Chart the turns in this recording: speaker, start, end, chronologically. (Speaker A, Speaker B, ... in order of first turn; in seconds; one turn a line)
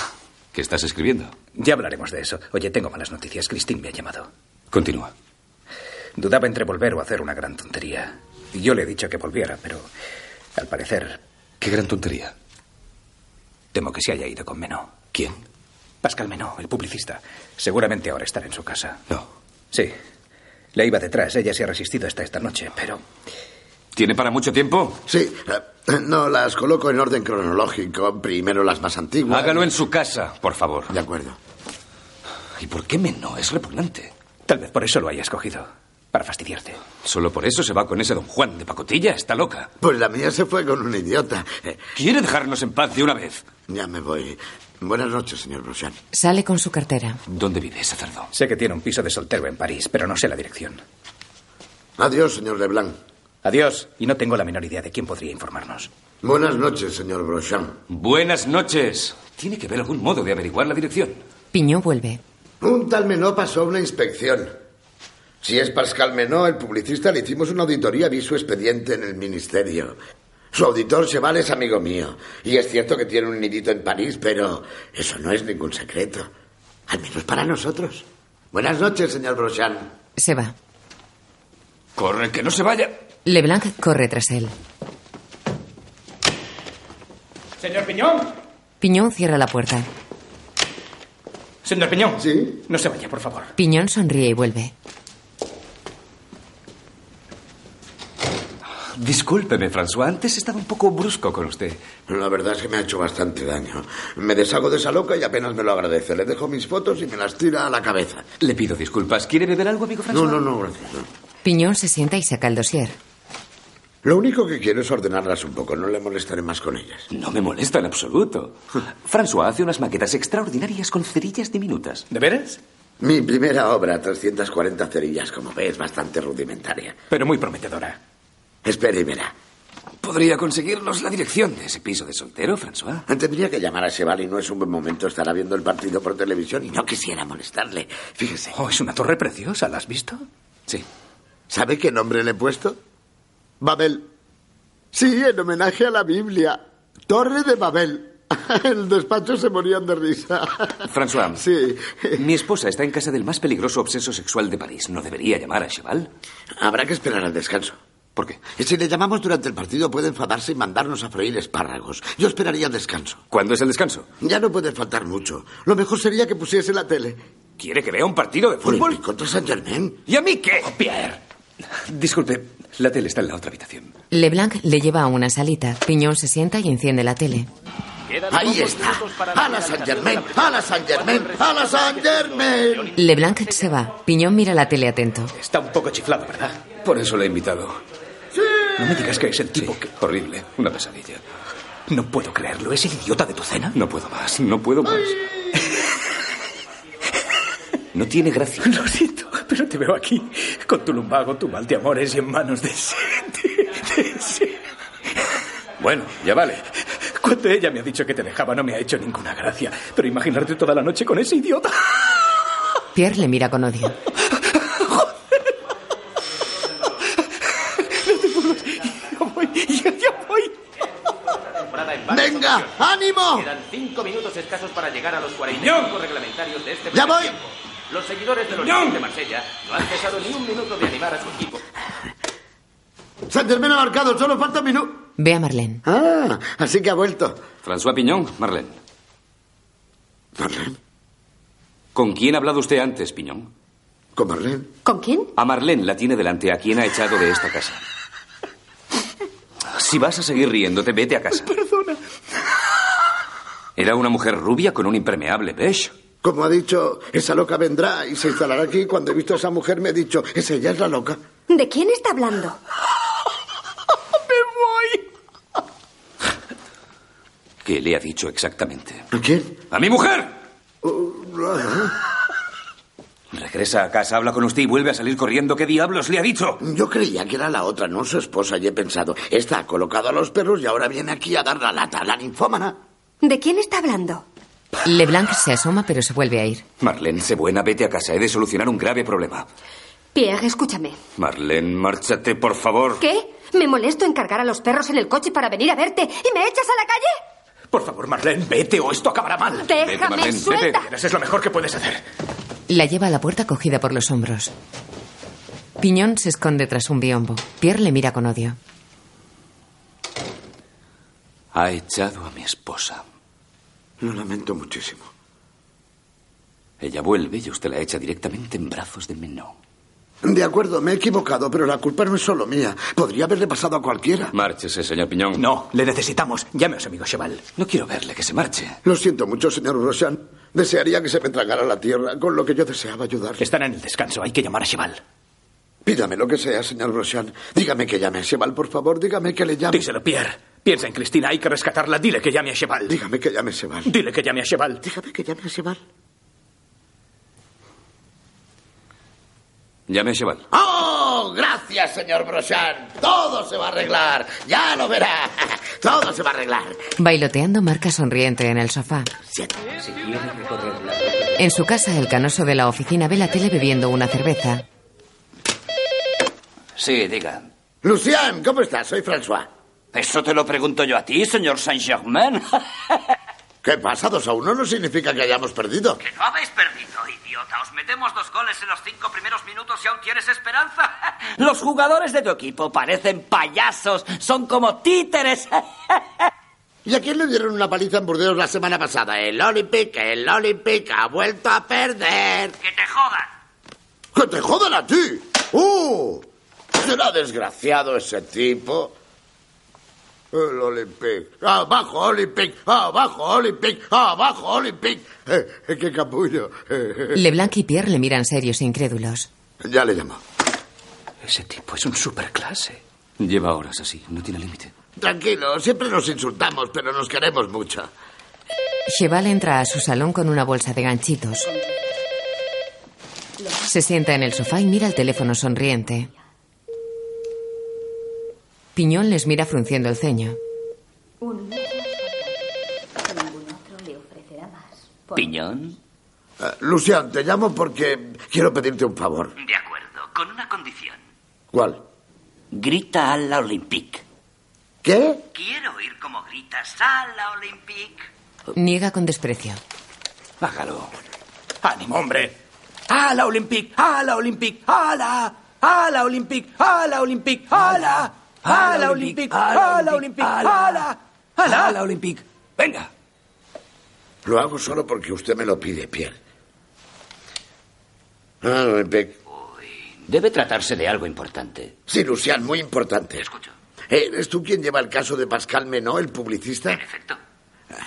Speaker A: 0.5-1.4
Speaker B: 1.5-4.3
Speaker A: 4.7-5.1
Speaker B: 6.2-9.9
Speaker B: 10.6-11.2
Speaker A: 11.6-12.3
Speaker B: 13.7-15.0
Speaker B: 16.0-19.0
Speaker B: 20.7-23.0
Speaker A: 23.9-25.0
Speaker C: 25.1-29.7
Speaker A: 29.3-30.9
Speaker C: 30.9-31.4
Speaker A: 32.6-34.1
Speaker B: 34.5-36.8
Speaker A: 37.0-39.7
Speaker C: 39.8-41.8
Speaker A: 42.0-43.4
Speaker C: 43.7-46.0
Speaker D: 46.1-47.2
Speaker A: 47.3-48.3
Speaker B: 48.3-50.8
Speaker C: 52.0-53.0
Speaker B: 53.4-55.9
Speaker C: 56.2-57.8
Speaker A: 57.9-61.2
Speaker D: 61.5-62.2
Speaker C: 62.6-64.6
Speaker C: 65.4-70.0
Speaker C: 70.5-76.3
Speaker C: 76.9-79.9
Speaker D: 80.2-80.5
Speaker A: 82.0-83.0
Speaker D: 83.2-84.5
Speaker B: 87.6-88.3
Speaker D: 88.8-89.9
Speaker B: 91.6-93.5
Speaker C: 92.2-92.6
Speaker D: 93.6-94.7
Speaker A: 99.0-101.8
Speaker C: 102.1-108.2
Speaker A: 108.4-110.4
Speaker C: 110.1-111.1
Speaker D: 111.4-113.0
Speaker C: 114.0-117.1
Speaker A: 117.1-122.1
Speaker B: 122.1-122.6
Speaker C: 123.0-127.0
Speaker B: 127.1-128.0
Speaker C: 128.6-129.3
Speaker A: 130.0-133.1
Speaker C: 133.1-138.6
Speaker B: 138.5-140.2
Speaker C: 141.5-142.8
Speaker C: 143.6-144.1
Speaker C: 144.9-152.2
Speaker A: 150.9-151.4
Speaker A: 152.2-156.1
Speaker C: 156.6-157.8
Speaker A: 158.2-158.4
Speaker C: 158.5-163.2
Speaker A: 163.3-164.1
Speaker C: 164.2-167.2
Speaker A: 167.6-169.0
Speaker C: 168.6-170.0
Speaker A: 170.1-171.1
Speaker B: 170.7-171.2
Speaker A: 171.9-173.9
Speaker D: 174.1-177.5
Speaker C: 178.3-182.9
Speaker D: 182.9-185.3
Speaker B: 185.4-186.7
Speaker A: 186.8-187.8
Speaker C: 188.4-188.7
Speaker B: 188.8-189.9
Speaker A: 189.5-191.2
Speaker B: 191.9-193.7
Speaker A: 193.7-195.2
Speaker A: 197.9-198.7
Speaker B: 198.6-204.6
Speaker A: 205.8-206.6
Speaker B: 207.2-212.1
Speaker D: 212.9-213.9
Speaker B: 217.9-220.6
Speaker E: 221.8-222.6
Speaker C: 222.1-223.5
Speaker E: 223.4-231.6
Speaker A: 225.5-225.9
Speaker C: 226.9-227.4
Speaker A: 228.5-229.1
Speaker C: 233.3-235.1
Speaker D: 235.2-235.8
Speaker C: 235.8-237.4
Speaker A: 237.6-238.8
Speaker C: 240.4-240.8
Speaker A: 241.9-243.5
Speaker C: 244.1-244.7
Speaker F: 244.8-245.3
Speaker A: 245.4-247.8
Speaker A: 249.7-251.5
Speaker B: 251.5-252.0
Speaker A: 253.8-255.9
Speaker C: 256.2-261.2
Speaker F: 261.5-262.6
Speaker B: 264.4-265.0
Speaker A: 267.6-269.1
Speaker C: 269.1-269.6
Speaker A: 269.7-270.4
Speaker C: 270.8-271.9
Speaker A: 273.3-276.6
Speaker C: 276.6-282.8
Speaker F: 283.2-284.2
Speaker D: 284.9-286.6
Speaker A: 286.8-289.5
Speaker F: 290.1-291.0
Speaker A: 291.2-293.0
Speaker F: 293.0-297.2
Speaker B: 297.7-299.7
Speaker F: 299.6-300.9
Speaker A: 299.7-300.9
Speaker B: 300.9-302.0
Speaker D: 302.7-304.5
Speaker D: 305.8-308.6
Speaker A: 311.5-313.0
Speaker C: 314.0-315.1
Speaker A: 316.8-319.5
Speaker C: 320.2-324.3
Speaker A: 324.3-325.4
Speaker B: 325.4-327.4
Speaker A: 327.6-328.8
Speaker C: 328.8-333.4
Speaker B: 333.4-335.0
Speaker C: 335.9-339.8
Speaker B: 339.7-342.9
Speaker C: 342.9-343.9
Speaker B: 343.9-344.8
Speaker C: 344.8-345.8
Speaker A: 349.9-350.4
Speaker C: 350.5-356.8
Speaker D: 357.0-359.1
Speaker C: 359.3-359.6
Speaker E: 359.8-361.3
Speaker D: 361.4-364.6
Speaker E: 366.8-367.5
Speaker C: 367.8-369.5
Speaker E: 369.9-373.0
Speaker C: 373.6-376.0
Speaker E: 376.0-386.0
Speaker C: 386.9-392.6
Speaker E: 392.6-393.3
Speaker C: 394.1-398.9
Speaker C: 400.3-407.2
Speaker D: 407.1-409.3
Speaker C: 409.6-410.2
Speaker B: 411.2-412.8
Speaker A: 413.2-414.7
Speaker C: 415.0-417.9
Speaker D: 418.9-421.5
Speaker D: 423.6-426.1
Speaker D: 428.8-430.4
Speaker G: 431.2-432.3
Speaker G: 433.1-434.9
Speaker E: 435.1-435.8
Speaker C: 436.4-439.4
Speaker E: 439.4-441.0
Speaker C: 441.5-441.8
Speaker E: 442.5-444.0
Speaker C: 444.8-445.2
Speaker E: 445.3-448.1
Speaker D: 448.6-449.6
Speaker E: 450.4-450.9
Speaker B: 451.6-452.3
Speaker B: 452.9-461.8
Speaker A: 458.5-460.6
Speaker E: 459.4-460.8
Speaker A: 461.5-462.2
Speaker C: 464.2-466.2
Speaker C: 468.4-469.2
Speaker E: 469.3-471.7
Speaker C: 471.9-473.3
Speaker C: 473.9-476.8
Speaker E: 476.7-477.2